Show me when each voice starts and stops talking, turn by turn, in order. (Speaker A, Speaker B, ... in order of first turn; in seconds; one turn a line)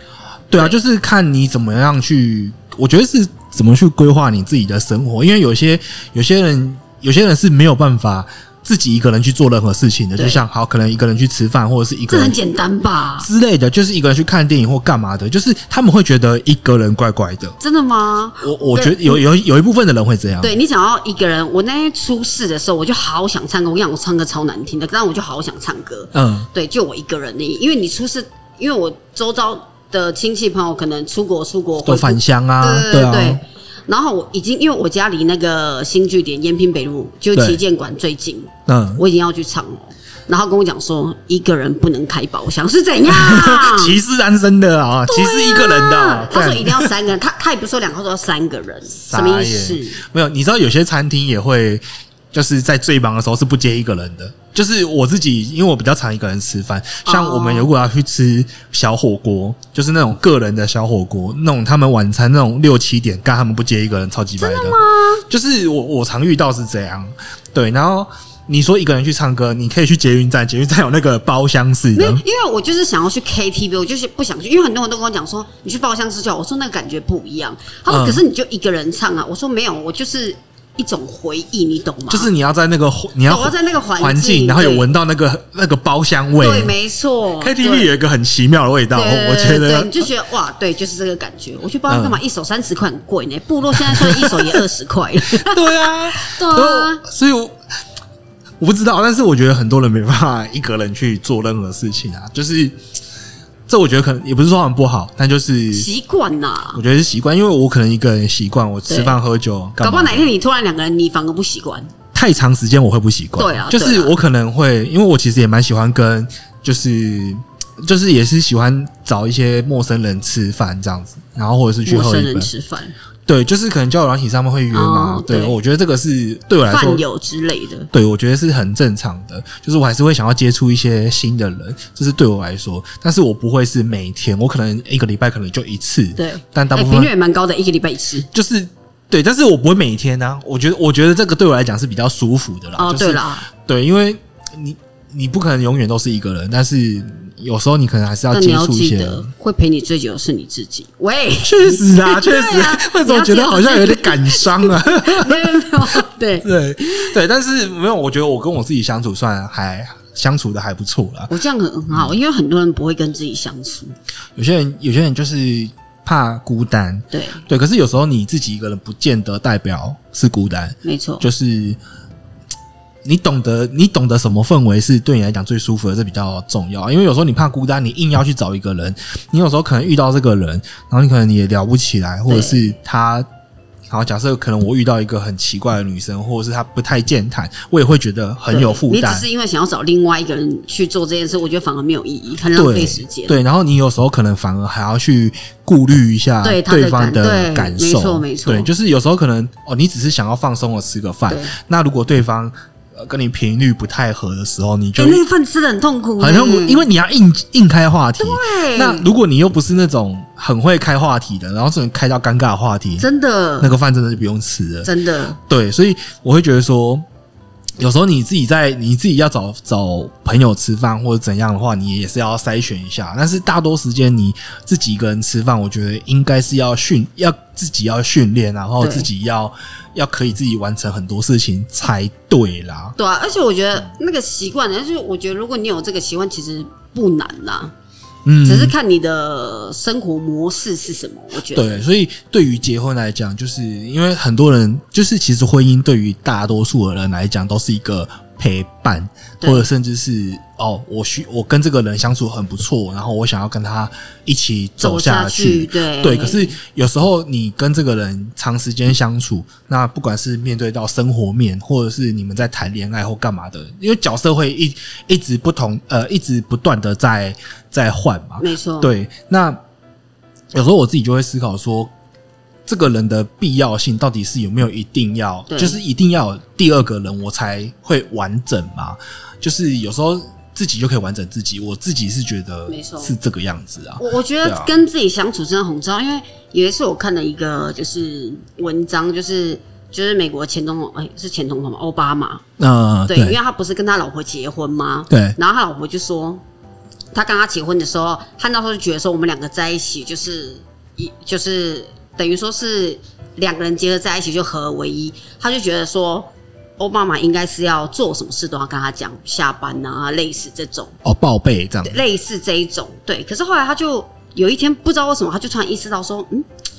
Speaker A: 0.5-12.4
Speaker B: 10.2-10.4
Speaker B: 12.1-13.3
Speaker A: 13.2-17.6
Speaker B: 17.6-19.2
Speaker A: 18.4-20.6
Speaker B: 20.4-44.0
Speaker A: 26.1-26.5
Speaker A: 31.8-33.4
Speaker A: 37.3-37.6
Speaker A: 38.7-39.0
Speaker A: 43.1-46.9
Speaker B: 45.1-50.0
Speaker A: 48.9-64.8
Speaker B: 57.0-57.7
Speaker B: 64.4-65.2
Speaker A: 65.3-72.2
Speaker B: 72.0-82.3
Speaker A: 77.9-78.2
Speaker A: 82.1-86.7
Speaker B: 83.3-84.9
Speaker B: 86.4-87.9
Speaker A: 87.4-90.1
Speaker B: 88.9-97.0
Speaker A: 91.9-92.2
Speaker A: 93.7-94.6
Speaker A: 95.3-97.6
Speaker A: 98.6-102.8
Speaker A: 103.7-105.9
Speaker B: 105.7-106.8
Speaker A: 106.7-110.3
Speaker B: 108.9-109.2
Speaker B: 109.8-111.9
Speaker A: 112.1-122.5
Speaker B: 113.4-114.2
Speaker B: 121.8-122.9
Speaker A: 123.3-127.0
Speaker B: 124.7-125.6
Speaker B: 126.7-127.9
Speaker A: 127.9-137.1
Speaker B: 136.2-138.3
Speaker A: 138.3-149.3
Speaker B: 142.8-143.5
Speaker B: 148.3-157.1
Speaker A: 151.4-161.3
Speaker B: 161.3-163.9
Speaker A: 164.3-171.8
Speaker B: 167.1-167.4
Speaker B: 170.8-171.3
Speaker A: 173.1-183.3
Speaker B: 182.3-182.6
Speaker A: 183.9-189.3
Speaker B: 188.5-193.4
Speaker A: 192.6-205.2
Speaker B: 196.4-198.7
Speaker B: 201.3-201.5
Speaker B: 205.0-206.9
Speaker A: 206.2-213.1
Speaker B: 208.2-209.1
Speaker B: 213.0-213.7
Speaker A: 213.6-217.0
Speaker B: 214.8-215.4
Speaker A: 217.8-232.9
Speaker B: 228.8-229.1
Speaker B: 233.0-237.7
Speaker A: 238.2-238.7
Speaker B: 238.4-241.7
Speaker A: 241.5-269.6
Speaker B: 249.4-249.7
Speaker B: 254.8-256.6
Speaker B: 268.4-268.9
Speaker A: 270.5-271.9
Speaker A: 272.7-284.7
Speaker B: 275.5-275.8
Speaker B: 282.7-283.1
Speaker B: 284.0-292.4
Speaker A: 292.6-293.4
Speaker B: 293.1-296.4
Speaker A: 295.1-295.4
Speaker B: 297.1-310.9
Speaker A: 311.0-311.9
Speaker B: 311.8-316.4